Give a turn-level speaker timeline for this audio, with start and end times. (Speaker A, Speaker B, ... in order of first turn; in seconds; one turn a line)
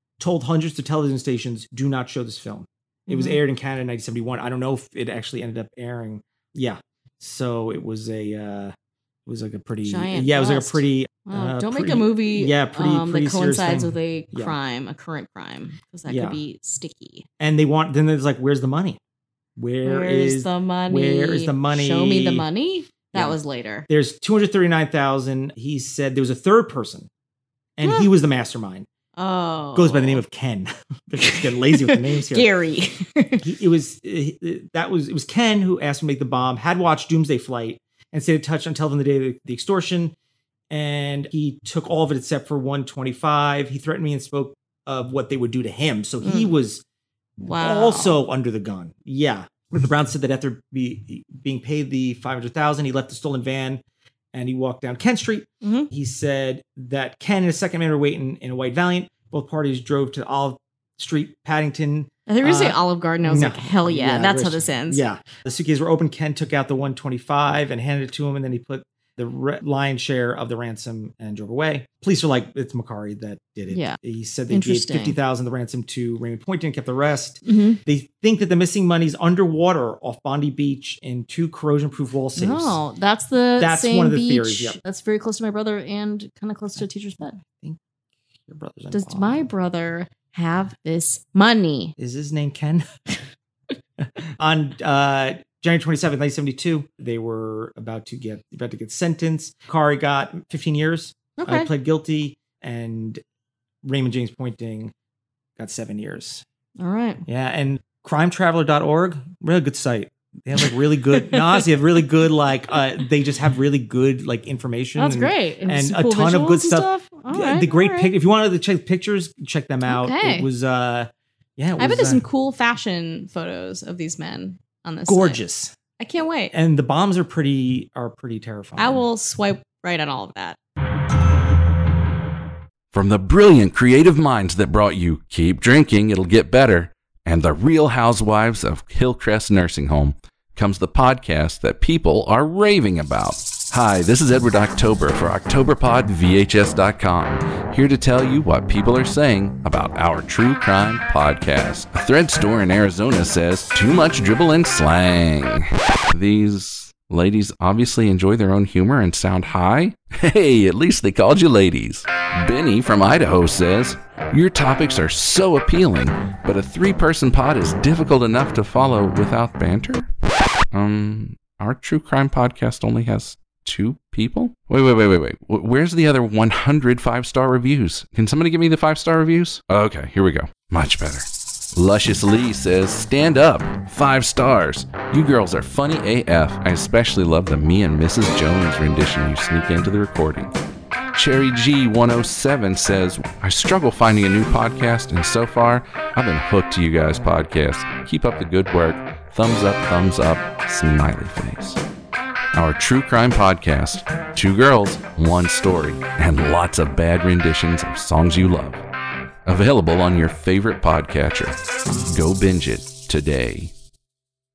Speaker A: 0.2-8.7
Speaker B: 3.1-3.4
Speaker A: 9.2-14.6
Speaker B: 9.8-17.3
Speaker A: 16.1-16.4
Speaker A: 17.4-19.0
Speaker A: 19.6-22.5
Speaker B: 19.8-23.9
Speaker A: 23.9-27.1
Speaker A: 27.8-28.9
Speaker B: 27.8-28.1
Speaker B: 29.2-30.2
Speaker A: 29.7-32.5
Speaker B: 31.2-33.5
Speaker A: 33.4-40.1
Speaker A: 40.7-46.8
Speaker B: 46.2-46.5
Speaker B: 47.4-48.2
Speaker A: 47.6-82.8
Speaker B: 55.6-55.9
Speaker B: 62.3-65.0
Speaker B: 73.7-75.2
Speaker B: 77.5-77.8
Speaker B: 82.4-87.4
Speaker A: 83.6-84.8
Speaker A: 88.5-89.5
Speaker B: 88.9-91.9
Speaker A: 92.0-92.9
Speaker A: 94.0-103.2
Speaker B: 101.4-101.7
Speaker A: 103.8-104.9
Speaker A: 105.6-106.4
Speaker B: 106.8-107.2
Speaker A: 107.2-122.2
Speaker B: 110.6-111.7
Speaker B: 115.0-118.1
Speaker B: 119.9-120.5
Speaker B: 121.8-125.4
Speaker A: 125.1-125.7
Speaker B: 126.0-126.5
Speaker A: 126.5-129.0
Speaker B: 128.8-130.6
Speaker C: 132.9-170.1
Speaker C: 170.7-190.5
Speaker C: 191.1-201.8
Speaker C: 202.5-208.8
Speaker C: 209.4-213.7